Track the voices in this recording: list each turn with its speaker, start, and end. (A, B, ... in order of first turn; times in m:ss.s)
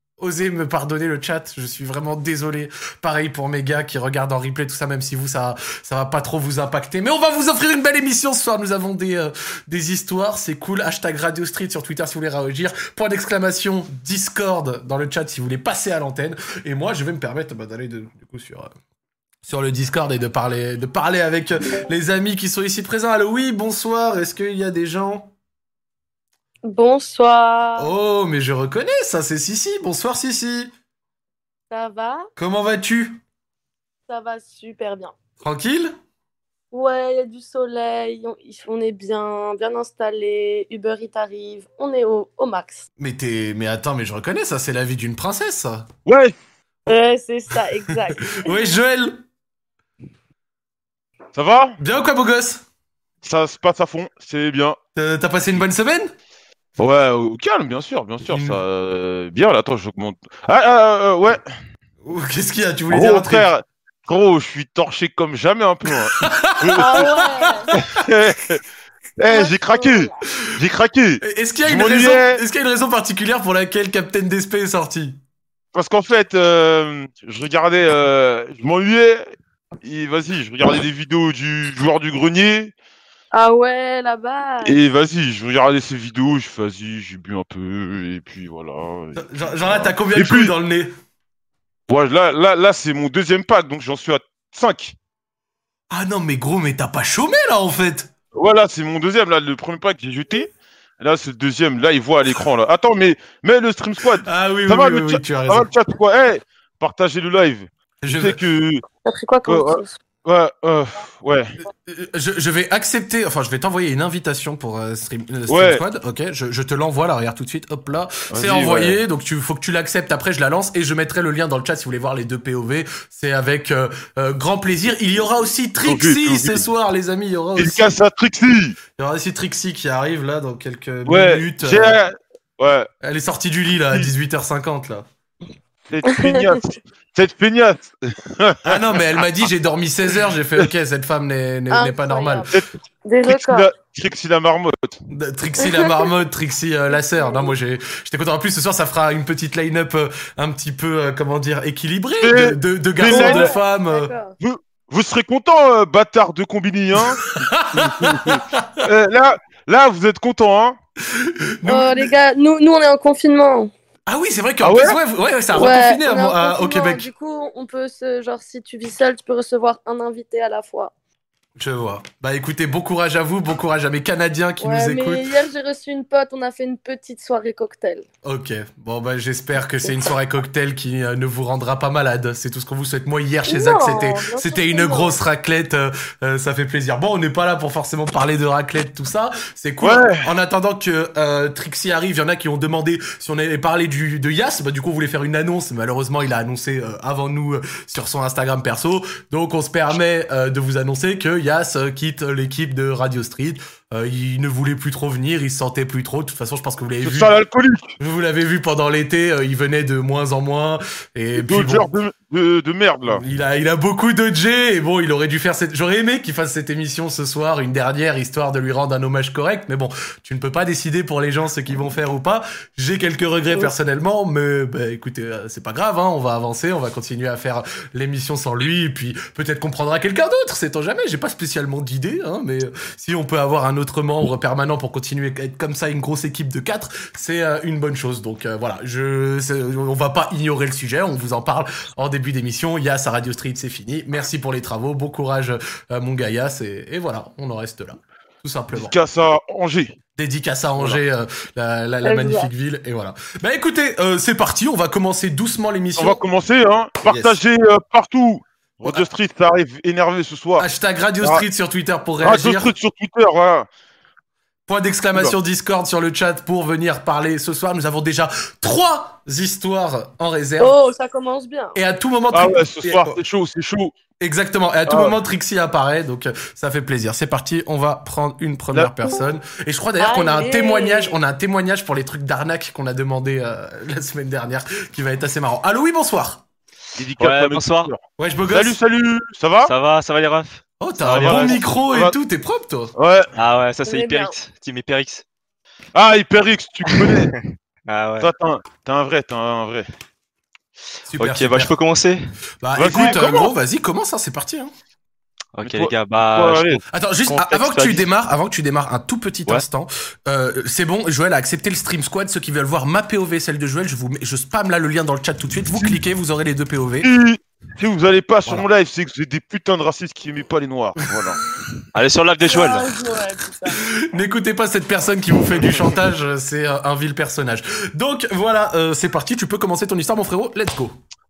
0:00.2-0:18.7 A
0:19.4-0:25.3 A
0:26.7-0:27.9 B
0:27.8-0:30.7 A
0:31.7-0:32.3 B
0:32.4-0:33.2 A
0:34.1-0:35.1 B
0:35.4-0:35.9 A
0:36.7-0:42.8 B
0:43.0-0:45.9 A
0:46.0-0:46.3 C
0:46.9-0:48.6 B
0:48.3-0:49.2 A
0:51.3-0:51.8 C
0:51.8-0:52.6 A
0:53.2-0:54.8 C
0:54.9-0:56.1 A
0:56.8-1:01.5 C
0:58.3-0:58.6 A
1:02.0-1:03.5 A
1:02.9-1:07.1 C
1:06.2-1:07.8 A
1:06.8-1:07.7 B
1:07.7-1:08.6 C
1:09.2-1:12.4 C
1:09.3-1:10.2 B
1:11.2-1:15.2 A
1:15.7-1:19.2 C
1:19.8-1:22.7 C
1:23.3-1:24.8 B
1:24.6-1:30.5 C
1:29.2-1:30.9 A
1:31.9-1:35.0 C
1:35.9-1:38.1 A
1:38.3-1:48.8 C
1:44.2-1:45.7 A
1:48.0-1:48.4 A
1:49.0-1:50.0 B
1:49.4-1:51.6 C
1:51.8-2:07.9 A
1:55.5-1:55.8 C
1:58.3-1:59.0 C
2:05.8-2:06.6 C
2:07.6-2:08.8 C
2:09.0-2:12.0 A
2:11.1-2:12.9 C
2:13.0-2:15.0 A
2:15.9-2:18.8 C
2:16.2-2:16.5 B
2:18.6-2:22.4 A
2:21.7-2:22.5 B
2:23.0-2:23.7 B
2:23.2-2:25.0 C
2:25.1-2:34.1 A
2:25.6-2:26.2 B
2:26.9-2:27.6 B
2:32.2-2:33.5 C
2:33.0-2:34.4 B
2:34.4-2:40.8 C
2:37.2-2:38.8 A
2:41.1-2:42.1 A
2:41.6-2:43.7 B
2:44.1-2:47.1 A
2:44.6-2:45.0 C
2:45.5-2:50.9 B
2:51.6-2:55.3 A
2:54.6-2:58.0 B
2:58.2-3:27.3 A
3:03.5-3:05.2 B
3:09.8-3:10.2 C
3:27.0-3:28.0 C
3:28.0-3:31.9 A
3:31.3-3:33.2 C
3:33.1-4:08.9 A
4:08.7-4:10.0 C
4:10.2-4:16.2 A
4:12.0-4:12.5 B
4:16.0-4:20.7 C
4:17.0-4:17.4 A
4:20.6-4:22.7 A
4:22.2-4:23.7 C
4:24.7-4:30.8 A
4:30.6-4:31.8 B
4:31.7-4:33.2 A
4:32.3-4:34.0 C
4:34.2-4:46.4 A
4:34.9-4:35.2 C
4:40.0-4:41.2 B
4:47.0-4:49.7 C
4:47.2-4:47.9 D
4:48.2-4:48.8 A
4:49.6-4:51.6 D
4:50.8-4:52.9 A
4:51.0-4:52.2 C
4:53.0-4:53.3 C
4:53.4-4:55.2 D
4:53.8-4:54.3 B
4:55.9-4:57.3 C
4:56.9-4:58.3 D
4:58.2-4:59.9 C
5:01.1-5:01.7 A
5:01.2-5:02.2 D
5:02.6-5:04.7 A
5:02.8-5:03.5 C
5:05.5-5:08.1 D
5:05.6-5:06.8 C
5:06.9-5:17.1 A
5:15.7-5:16.0 C
5:17.0-5:21.4 C
5:21.9-5:23.1 D
5:22.4-5:23.8 B
5:23.8-5:30.9 A